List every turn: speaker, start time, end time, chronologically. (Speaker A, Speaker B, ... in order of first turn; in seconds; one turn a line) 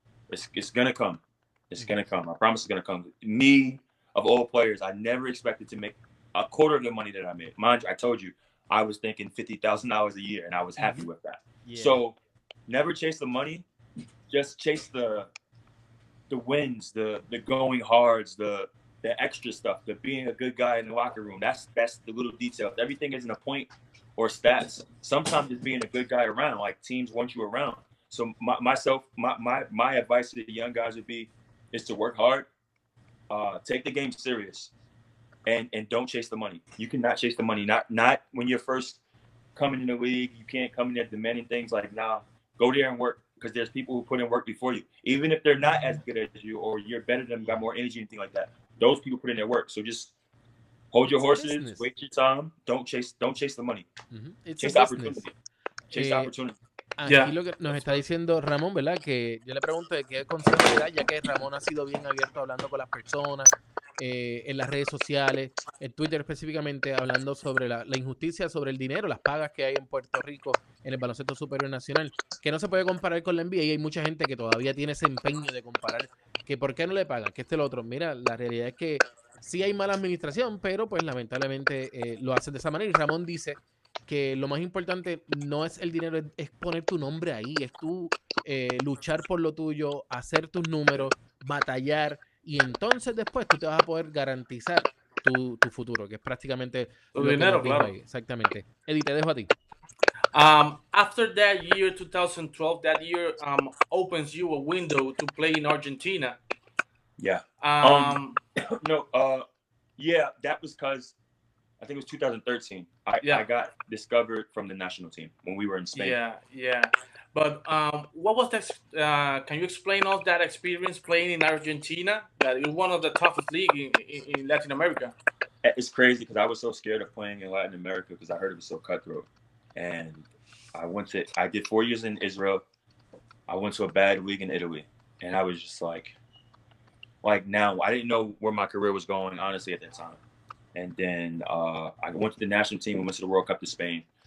Speaker A: 0.3-12.2
Speaker B: 10.8-11.1
Speaker B: 11.6-12.0
Speaker A: 12.7-13.6
Speaker A: 14.3-15.3
Speaker A: 16.3-32.5
Speaker A: 33.3-34.7
Speaker A: 35.5-39.0
Speaker A: 39.5-50.1
Speaker A: 50.9-53.9
Speaker B: 51.1-51.9
Speaker B: 54.1-55.2
Speaker A: 54.6-55.3
Speaker B: 55.9-56.3
Speaker A: 55.9-56.6
Speaker B: 57.0-99.5
Speaker C: 57.1-57.3
Speaker A: 57.7-58.0
Speaker C: 97.1-97.9
Speaker C: 100.3-106.4
Speaker A: 107.2-109.4
Speaker C: 107.6-108.4
Speaker A: 110.0-111.1
Speaker A: 111.8-116.2
Speaker C: 115.9-125.1
Speaker A: 125.6-132.6
Speaker A: 133.5-136.2
Speaker A: 137.2-140.2
Speaker A: 140.7-144.0